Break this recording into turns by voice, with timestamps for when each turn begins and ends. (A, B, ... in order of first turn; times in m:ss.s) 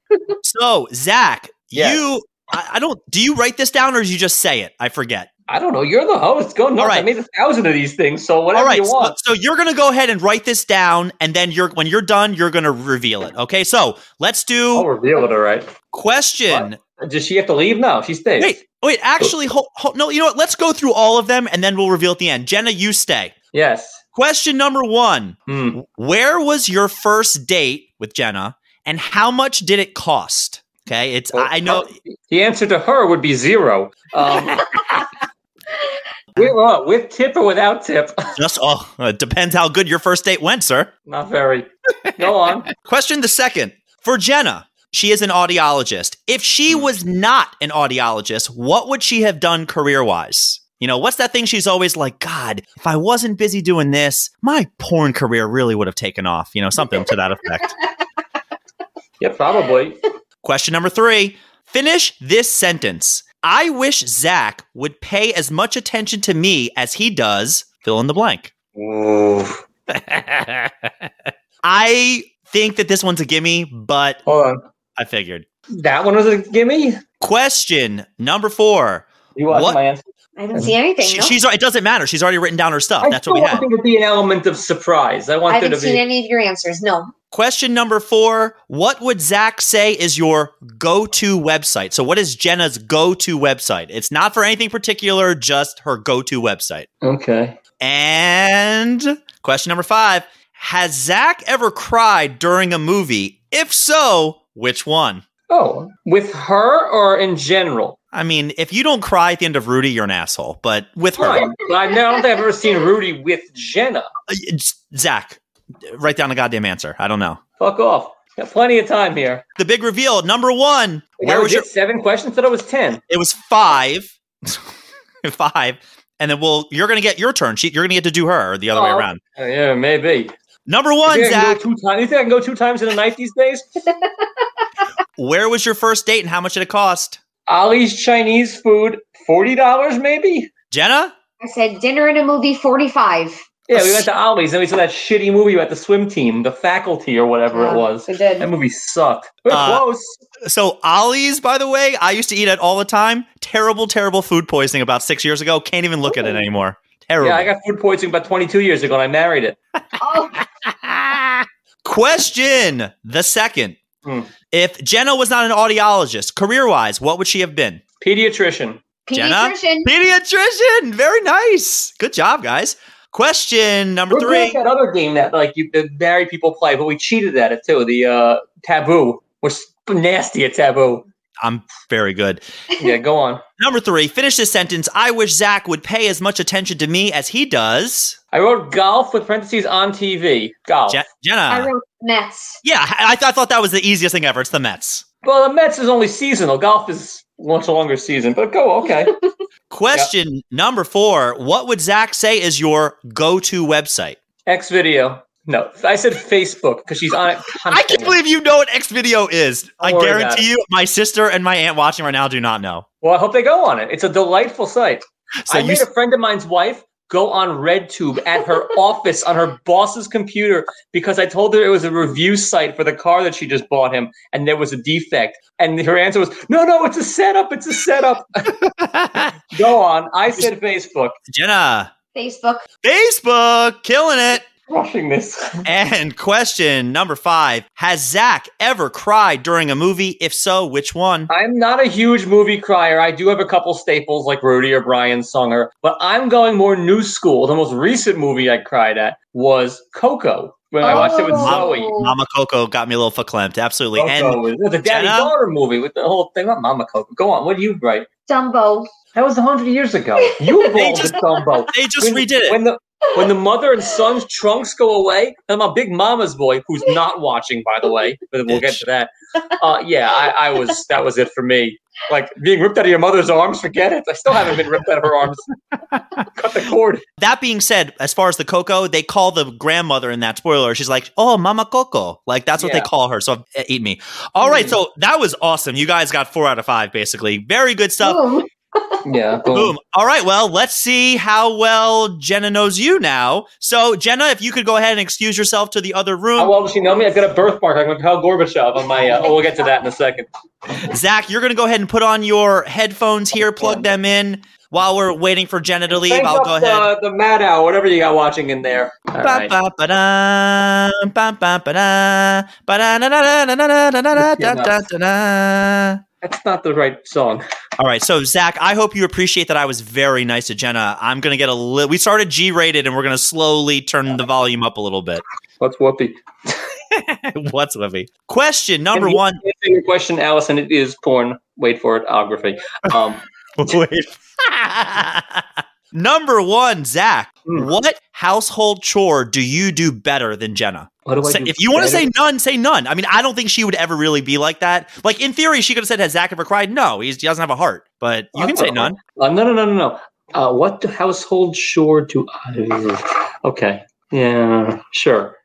0:00.4-0:05.3 A
0:01.7-0:02.0 B
0:05.5-0:09.2 B
0:06.8-0:07.1 A
0:08.5-0:14.9 A
0:14.7-0:15.7 B
0:15.9-0:16.8 A
0:16.5-0:18.6 B
0:18.4-0:23.3 A
0:23.5-0:24.0 B
0:24.1-0:31.9 A
0:25.5-0:25.8 B
0:31.3-0:34.7 B
0:36.4-0:38.3 B
0:38.4-0:40.9 A
0:41.1-0:42.7 B
0:42.2-0:57.8 A
0:59.2-1:00.0 B
1:00.4-1:08.5 A
1:08.8-1:09.6 B
1:09.9-1:10.9 A
1:11.6-1:14.2 A
1:14.3-1:14.6 B
1:15.0-1:15.4 A
1:15.7-1:17.0 B
1:17.2-1:19.8 A
1:19.4-1:20.0 B
1:20.4-1:21.4 C
1:20.6-1:23.7 A
1:23.0-1:26.0 B
1:25.5-1:27.1 C
1:27.3-1:36.9 A
1:37.0-1:37.6 B
1:37.8-1:45.2 A
1:45.5-1:48.0 B
1:48.1-1:51.5 A
1:51.2-1:54.1 B
1:54.3-1:57.4 A
1:57.6-1:59.4 B
1:59.6-2:01.7 A
2:01.2-2:03.0 B
2:03.0-2:04.7 A
2:05.2-2:09.2 A
2:08.7-2:10.3 B
2:10.7-2:11.6 A
2:11.1-2:13.7 B
2:15.2-2:17.2 A
2:17.5-2:20.5 B
2:20.7-2:21.2 A
2:21.4-2:23.4 C
2:23.7-2:30.2 B
2:23.7-2:24.1 A
2:27.5-2:28.5 C
2:29.5-2:29.8 A
2:30.4-2:37.5 A
2:36.1-2:36.4 C
2:37.2-2:39.6 B
2:40.0-2:40.4 C
2:40.4-2:43.8 A
2:44.0-2:44.3 B
2:44.5-2:47.8 A
2:48.0-2:48.8 B
2:49.1-2:49.9 C
2:49.1-2:54.6 A
2:54.1-3:01.1 B
3:01.4-3:02.4 A
3:02.8-3:03.4 B
3:03.6-3:08.2 A
3:08.3-3:11.0 B
3:10.9-3:11.7 A
3:11.5-3:12.6 C
3:12.6-3:15.0 A
3:15.2-3:19.2 B
3:19.7-3:24.2 A
3:24.5-3:28.2 B
3:27.7-3:32.8 A
3:29.8-3:30.5 B
3:33.0-3:48.5 B
3:35.4-3:35.9 A
3:48.6-3:49.4 A
3:49.5-3:51.2 B
3:51.3-3:51.9 A
3:52.1-3:52.6 C
3:52.8-3:54.4 A
3:54.7-3:55.6 B
3:55.6-4:01.3 A
4:01.3-4:12.0 B
4:10.8-4:12.2 C
4:10.9-4:15.3 A
4:14.0-4:18.1 B
4:18.3-4:18.9 C
4:19.2-4:35.5 B
4:20.7-4:22.6 A
4:28.5-4:28.8 A
4:35.9-4:36.2 A
4:36.3-4:37.0 B
4:37.2-4:48.2 A
4:42.6-4:42.9 B
4:44.4-4:44.8 B
4:48.0-4:49.0 C
4:49.0-4:49.8 B
4:49.5-4:56.6 A
4:56.4-5:00.3 B
5:00.8-5:06.9 A
5:03.5-5:03.8 B
5:05.9-5:09.5 B
5:09.2-5:16.0 A
5:14.2-5:14.8 B
5:16.2-5:17.4 B
5:17.8-5:25.2 A
5:25.6-5:26.6 B
5:26.9-5:29.4 A
5:28.9-5:33.2 B
5:33.6-5:49.0 A
5:41.1-5:42.1 B
5:48.4-5:55.4 B